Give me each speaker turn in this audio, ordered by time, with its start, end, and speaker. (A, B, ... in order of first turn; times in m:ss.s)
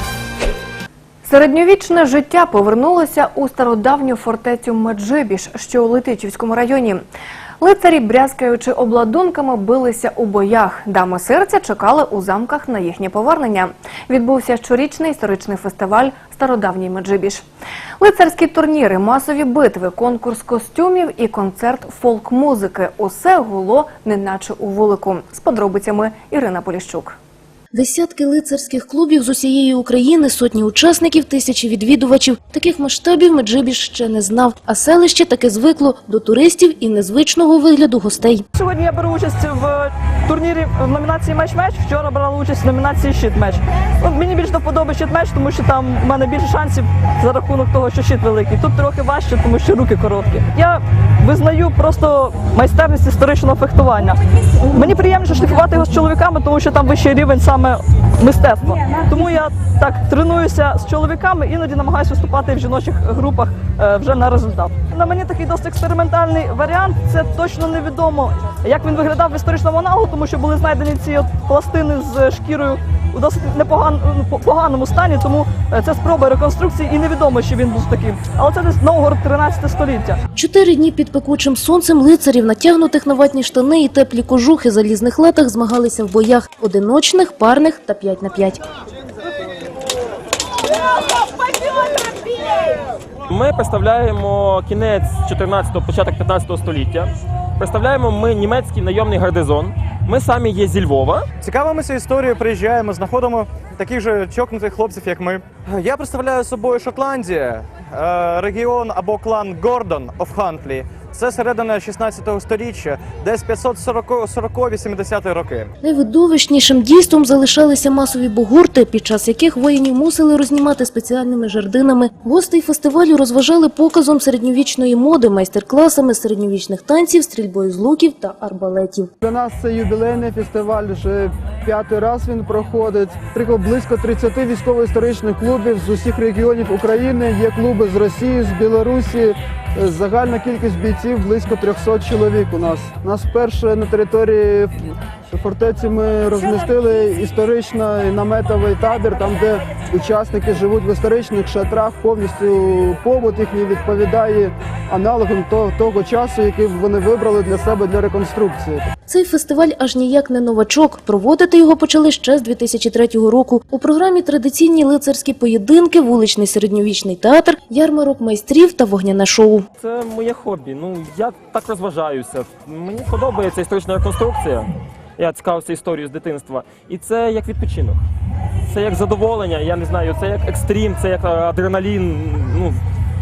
0:01.2-0:07.1 A
0:07.6-0:17.4 A
0:18.0-0:27.2 A
0:27.7-0:38.4 B
0:38.6-1:20.2 C
1:20.3-1:28.6 B
1:33.3-1:41.3 D
1:41.4-1:55.7 E
1:55.8-2:09.1 B
2:09.2-2:38.9 F
2:39.1-2:49.7 B
2:49.8-2:58.0 D
2:58.7-3:02.8 D